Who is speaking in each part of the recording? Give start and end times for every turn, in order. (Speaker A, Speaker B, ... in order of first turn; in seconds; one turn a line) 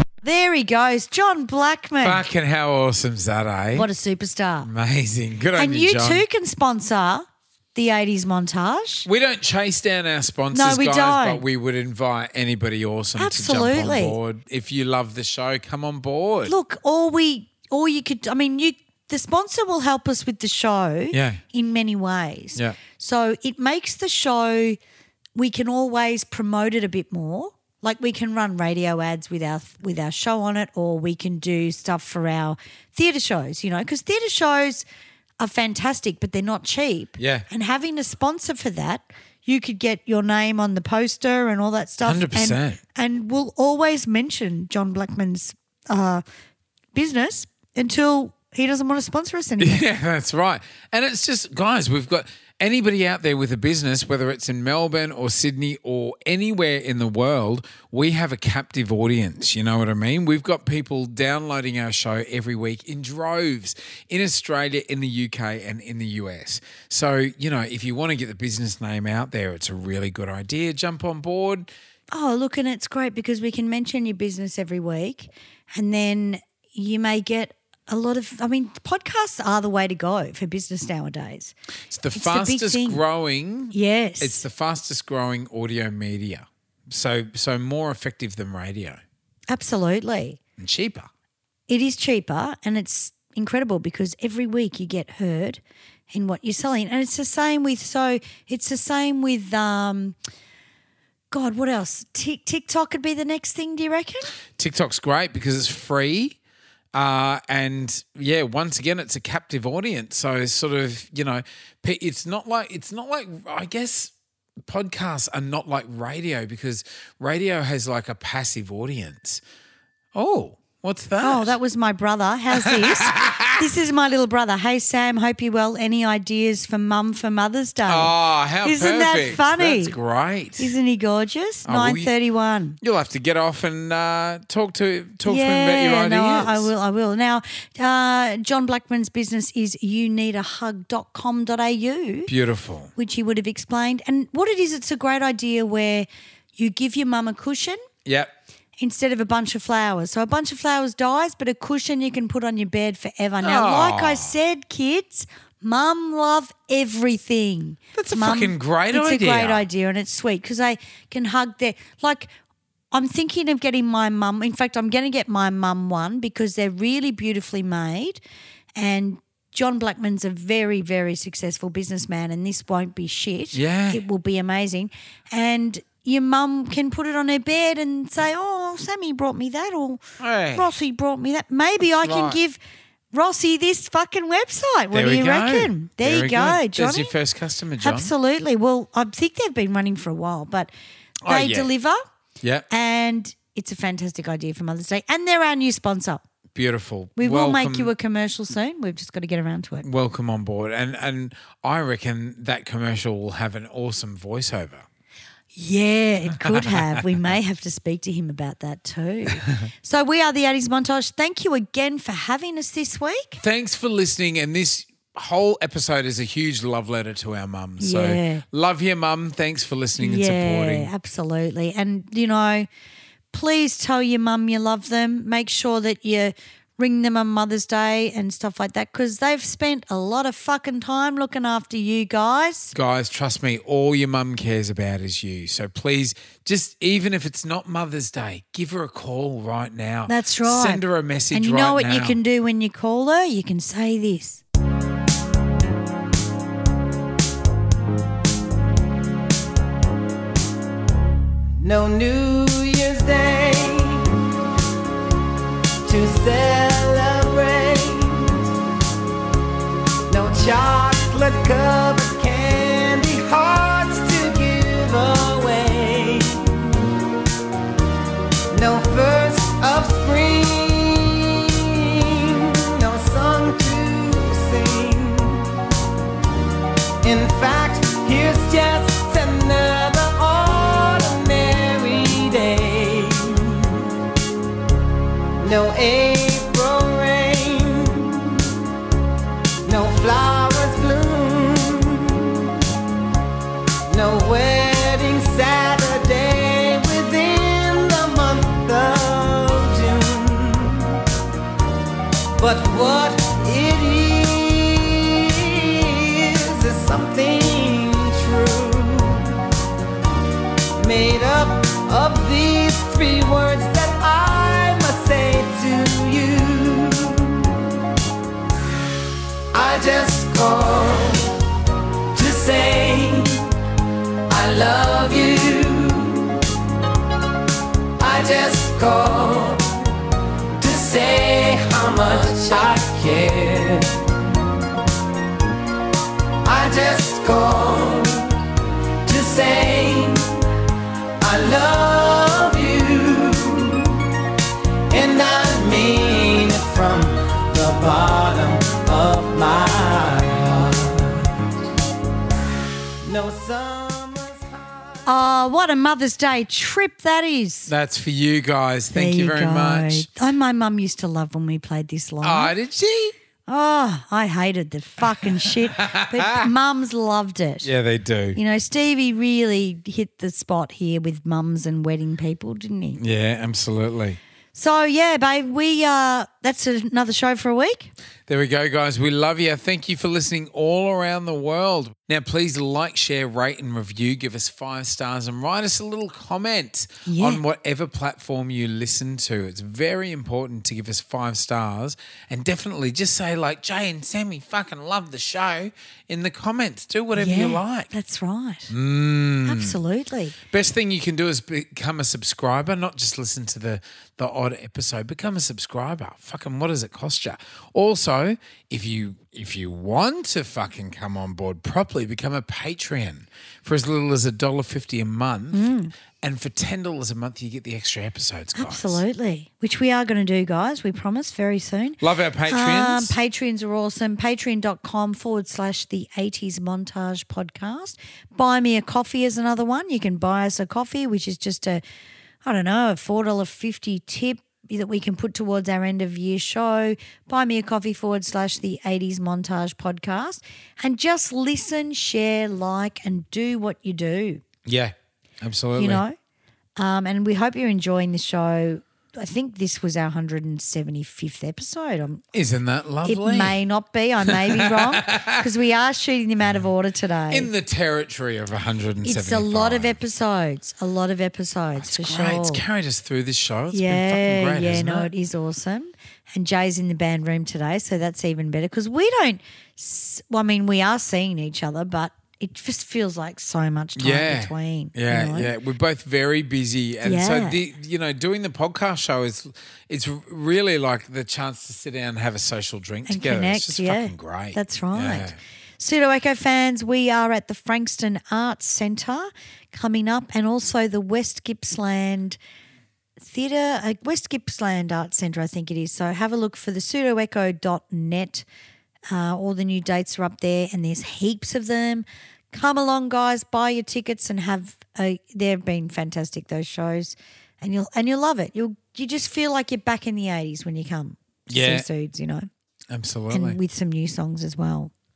Speaker A: 0.2-2.2
Speaker B: 2.0-3.9
Speaker A: 3.7-4.7
Speaker B: 4.6-6.2
Speaker A: 5.6-9.1
Speaker B: 9.1-16.5
Speaker A: 10.5-11.4
Speaker A: 13.2-14.2
Speaker A: 16.4-24.8
Speaker B: 21.1-21.4
Speaker A: 25.3-34.9
Speaker A: 35.4-46.2
Speaker B: 37.2-37.5
Speaker B: 42.0-42.8
Speaker A: 46.9-49.8
Speaker B: 49.6-71.7
Speaker A: 72.1-81.5
Speaker B: 81.9-89.0
Speaker A: 82.1-83.0
Speaker A: 83.7-84.4
Speaker A: 89.5-90.4
Speaker B: 90.6-91.1
Speaker A: 91.7-100.2
Speaker A: 101.3-104.3
Speaker B: 104.5-106.4
Speaker B: 106.9-119.4
Speaker B: 120.1-121.5
Speaker A: 121.2-129.9
Speaker B: 122.5-123.6
Speaker B: 127.9-130.7
Speaker A: 130.6-132.8
Speaker B: 131.6-132.1
Speaker B: 132.8-136.7
Speaker A: 135.2-142.3
Speaker B: 142.3-142.9
Speaker A: 142.9-147.8
Speaker B: 148.0-148.3
Speaker A: 148.8-162.3
Speaker B: 153.4-154.4
Speaker B: 157.9-159.6
Speaker A: 162.9-168.2
Speaker A: 168.8-180.0
Speaker B: 173.5-174.0
Speaker B: 180.2-180.7
Speaker A: 180.5-182.6
Speaker B: 182.0-182.4
Speaker A: 183.1-187.1
Speaker B: 184.9-188.1
Speaker A: 187.8-190.7
Speaker B: 191.2-191.7
Speaker A: 191.3-192.0
Speaker A: 192.7-196.2
Speaker B: 196.5-197.9
Speaker A: 197.2-199.8
Speaker B: 199.8-204.9
Speaker A: 205.5-213.4
Speaker B: 206.4-207.1
Speaker B: 213.4-220.9
Speaker A: 217.8-218.4
Speaker A: 220.0-222.7
Speaker A: 223.3-232.7
Speaker B: 232.7-242.2
Speaker A: 240.1-244.4
Speaker C: 251.6-254.0
Speaker C: 255.8-258.5
Speaker C: 260.1-266.8
Speaker C: 268.5-275.5
Speaker C: 277.0-283.9
Speaker C: 285.4-288.4
Speaker C: 289.6-292.5
Speaker C: 293.9-301.0
Speaker C: 302.4-309.4
Speaker C: 310.8-317.6
Speaker C: 319.5-321.2
Speaker C: 322.1-323.4
Speaker C: 324.3-326.4
Speaker C: 328.0-329.7
Speaker C: 330.6-333.9
Speaker C: 336.4-338.3
Speaker C: 339.0-340.2
Speaker C: 341.2-344.0
Speaker C: 344.9-351.2
Speaker C: 353.0-355.1
Speaker A: 355.1-357.7
Speaker B: 357.7-360.1
Speaker A: 358.9-362.5
Speaker B: 362.2-363.1
Speaker A: 363.5-367.7
Speaker B: 365.2-366.5
Speaker B: 367.6-368.4
Speaker A: 368.3-373.0
Speaker B: 373.0-374.2
Speaker A: 374.5-377.9
Speaker B: 378.3-397.9
Speaker A: 387.0-387.4
Speaker A: 397.1-398.7
Speaker B: 398.7-399.8
Speaker A: 399.4-400.4
Speaker B: 400.5-419.0
Speaker A: 415.5-415.9
Speaker A: 418.5-431.8
Speaker B: 422.0-423.1
Speaker A: 432.4-444.4
Speaker B: 444.6-446.0
Speaker A: 445.8-446.1
Speaker A: 446.8-452.2
Speaker B: 452.3-453.6
Speaker A: 453.0-457.5
Speaker B: 454.2-455.5
Speaker B: 457.3-460.0
Speaker A: 459.0-462.6
Speaker B: 461.8-465.1
Speaker A: 463.7-475.5
Speaker B: 474.0-485.4
Speaker A: 477.0-477.6
Speaker A: 483.1-492.4
Speaker A: 493.2-498.4
Speaker A: 499.1-512.5
Speaker B: 511.5-511.9
Speaker B: 512.9-513.6
Speaker A: 513.3-514.9